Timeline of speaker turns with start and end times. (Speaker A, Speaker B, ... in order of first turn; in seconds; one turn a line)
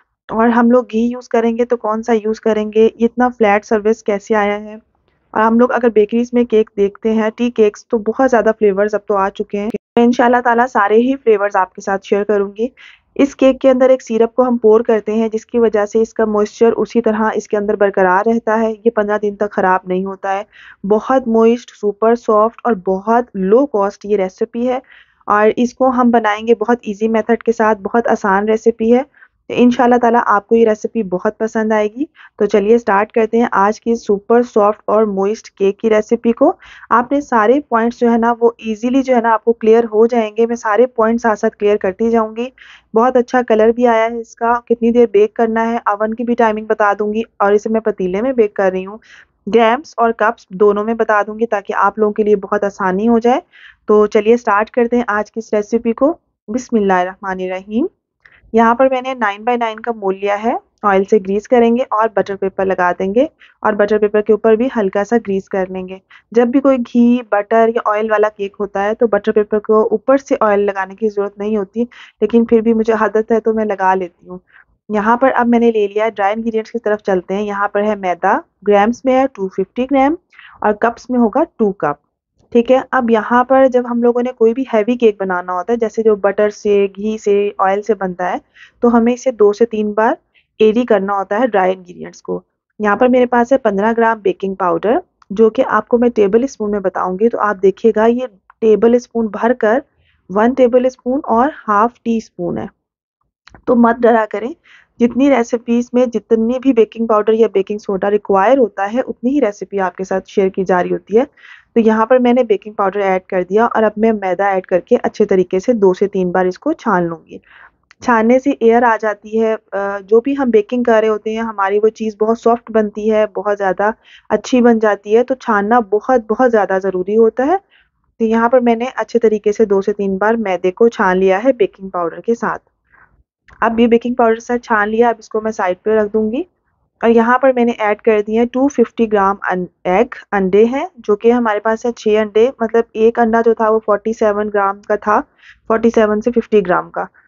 Speaker A: 0.3-4.8
Speaker A: 5.3-49.0
Speaker A: 49.5-57.9
Speaker A: 58.5-74.4
Speaker A: 74.9-82.0
Speaker A: 82.5-102.7
Speaker A: 103.7-117.4
Speaker A: 118.0-127.6
Speaker A: 128.2-132.6
Speaker A: 133.6-136.4
Speaker A: 137.0-147.1